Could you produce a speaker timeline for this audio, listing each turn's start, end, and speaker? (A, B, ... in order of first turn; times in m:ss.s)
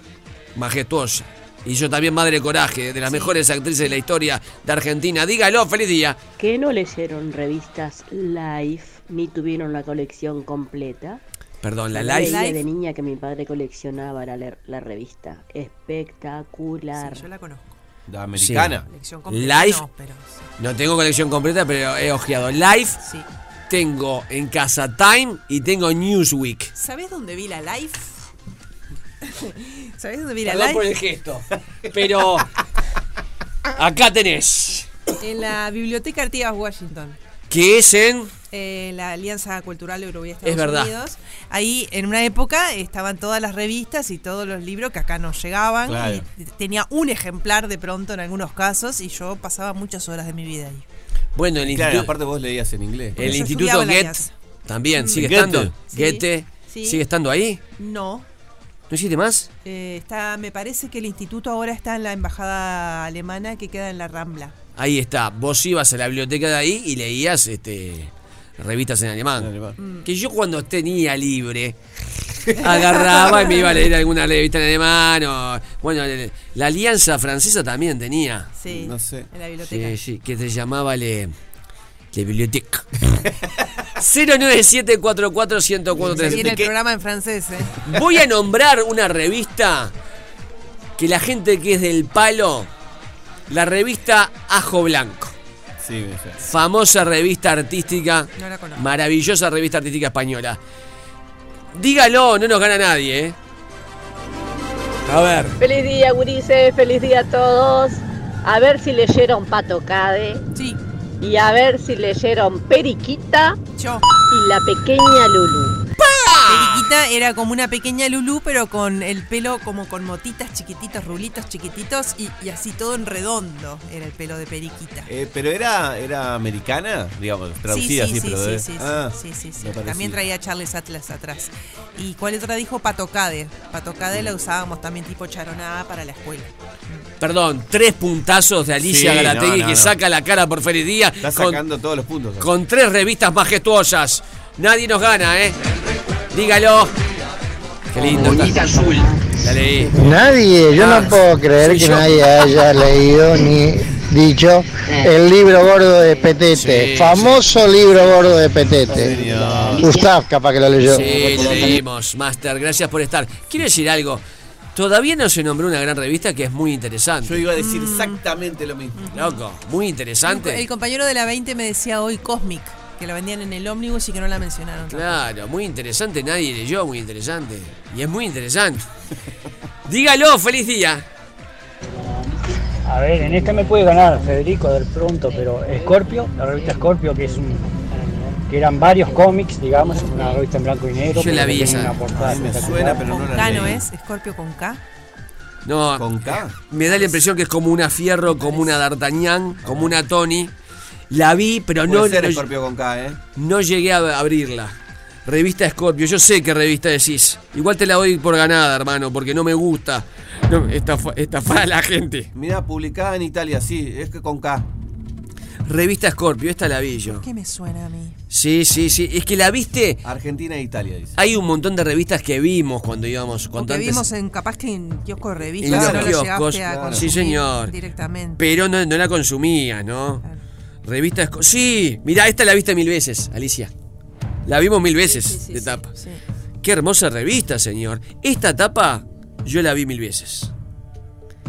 0:00.5-0:06.2 A
0:03.0-0:03.4 B
0:06.4-0:11.2 C
0:11.6-0:12.4 A
0:11.9-0:17.3 C
0:12.2-0:12.6 B
0:17.0-0:17.8 B
0:18.1-0:18.8 D
0:18.4-0:18.8 A
0:18.9-0:20.5 B
0:19.3-0:19.8 A
0:20.6-0:23.0 A
0:23.0-0:23.3 B
0:23.7-0:26.7 A
0:26.8-0:28.1 B
0:29.2-0:30.8 B
0:30.4-0:32.5 A
0:33.8-0:34.9 A
0:35.2-0:37.2 B
0:37.5-0:38.3 A
0:38.5-0:50.8 B
0:40.4-0:40.9 A
0:45.8-0:46.2 D
0:51.4-0:52.1 A
0:51.7-0:53.3 D
0:53.2-0:54.3 B
0:53.2-0:57.6 A
0:54.9-0:57.0 B
0:55.1-0:55.7 D
0:57.8-0:58.3 B
0:58.9-0:59.5 A
0:59.6-1:04.5 B
1:04.8-1:09.5 A
1:09.4-1:09.7 D
1:09.8-1:10.1 B
1:10.0-1:11.8 A
1:12.6-1:18.5 A
1:12.7-1:13.8 B
1:18.5-1:20.0 B
1:18.7-1:19.3 D
1:19.6-1:21.3 A
1:22.1-1:22.8 A
1:24.0-1:26.6 A
1:26.0-1:26.7 D
1:26.0-1:27.7 B
1:27.8-1:29.9 A
1:31.0-1:32.7 A
1:33.5-1:35.3 A
1:35.8-1:36.4 D
1:36.4-1:40.6 A
1:38.4-1:38.9 B
1:41.7-1:43.4 A
1:45.1-1:45.6 A
1:45.6-1:50.4 E
1:50.5-1:50.8 B
1:51.2-1:53.5 E
1:53.7-1:54.1 B
1:54.6-1:55.3 E
1:56.0-1:56.8 A
1:56.4-2:05.1 B
2:05.1-2:10.2 D
2:07.7-2:17.0 B
2:17.2-2:21.6 A
2:18.8-2:20.0 D
2:21.2-2:22.5 D
2:22.4-2:25.6 A
2:26.3-2:26.9 A
2:27.9-2:30.0 A
2:29.9-2:39.2 F
2:30.7-2:32.7 A
2:36.5-2:38.4 A
2:38.9-2:39.9 D
2:39.7-2:41.7 F
2:40.8-2:44.2 A
2:44.7-2:47.4 A
2:47.2-2:49.0 D
2:47.5-2:48.2 B
2:49.0-2:49.4 B
2:49.1-2:50.6 A
2:50.2-2:55.2 B
2:54.9-2:58.9 A
2:59.8-3:01.0 A
3:02.9-3:13.2 G
3:11.2-3:12.0 A
3:12.1-3:13.8 D
3:13.0-3:14.8 B
3:15.6-3:20.5 A
3:16.0-3:16.6 D
3:16.8-3:17.2 B
3:18.3-3:18.8 B
3:19.6-3:20.0 D
3:21.1-3:22.4 A
3:21.8-3:23.2 D
3:23.4-3:24.7 A
3:25.2-3:32.3 A
3:32.3-3:34.7 D
3:35.6-3:37.3 A
3:37.0-3:38.2 B
3:38.3-3:40.0 A
3:40.0-3:41.2 D
3:41.2-3:44.0 A
3:43.5-3:48.4 B
3:45.6-3:47.7 A
3:45.6-3:47.0 D
3:48.4-3:50.2 A
3:50.8-3:53.7 A
3:54.4-3:55.9 A
3:55.0-3:56.2 B
3:56.6-4:00.5 A